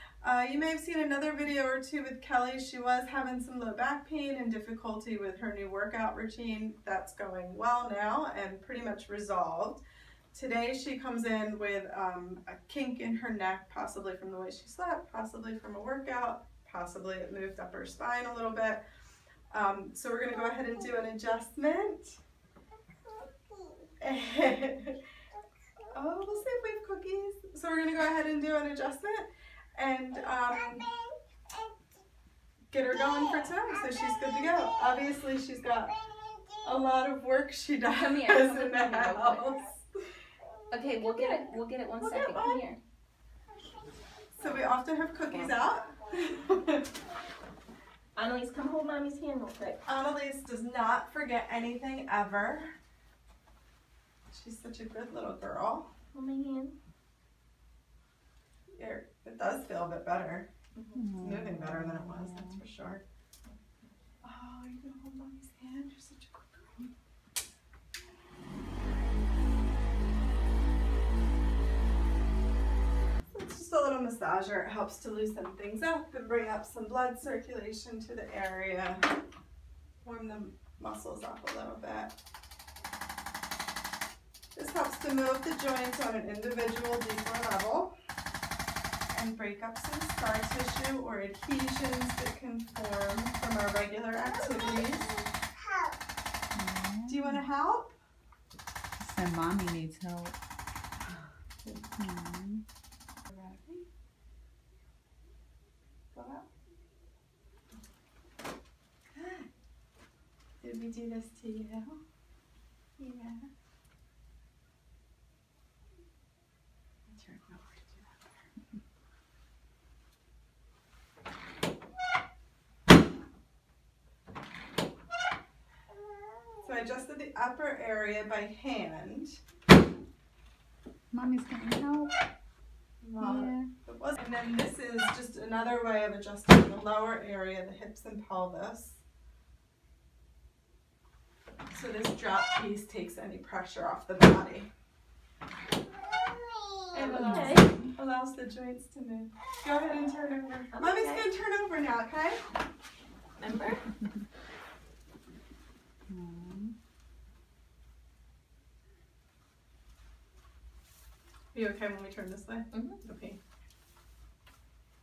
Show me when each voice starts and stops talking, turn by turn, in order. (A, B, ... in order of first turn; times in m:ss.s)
0:00.2-0:09.8 A
0:10.3-0:18.8 A
0:19.5-0:22.2 A
0:24.0-0:25.0 A
0:25.9-0:30.9 A
0:32.7-0:35.9 A
0:36.6-0:39.9 A
0:37.9-0:39.5 B
0:40.7-0:42.8 B
0:42.0-0:42.6 A
0:44.4-0:46.9 A
0:48.2-0:49.8 B
0:49.9-0:52.7 A
0:54.3-0:55.9 A
0:56.1-0:56.7 B
0:58.7-1:00.5 A
1:00.8-1:01.0 B
1:01.0-1:02.6 C
1:01.2-1:03.0 A
1:04.2-1:06.9 A
1:13.3-1:19.0 A
1:20.0-1:22.2 A
1:24.5-1:27.9 A
1:29.1-1:35.2 A
1:36.5-1:37.4 C
1:37.1-1:38.0 A
1:39.0-1:40.4 C
1:41.6-1:42.6 C
1:43.3-1:43.9 A
1:46.1-1:46.5 A
1:49.1-1:49.5 A
1:50.6-1:52.0 A
1:53.0-1:53.5 A
1:57.1-1:58.4 A
2:06.6-2:09.4 A
2:11.1-2:12.2 C
2:13.0-2:19.0 A
2:13.2-2:13.7 C
2:21.7-2:24.7 A
2:26.9-2:32.4 A
2:27.0-2:27.7 B
2:27.2-2:27.9 C
2:30.7-2:31.2 B
2:33.4-2:33.8 B
2:36.1-2:36.7 C
2:41.5-2:43.4 A
2:42.7-2:43.0 B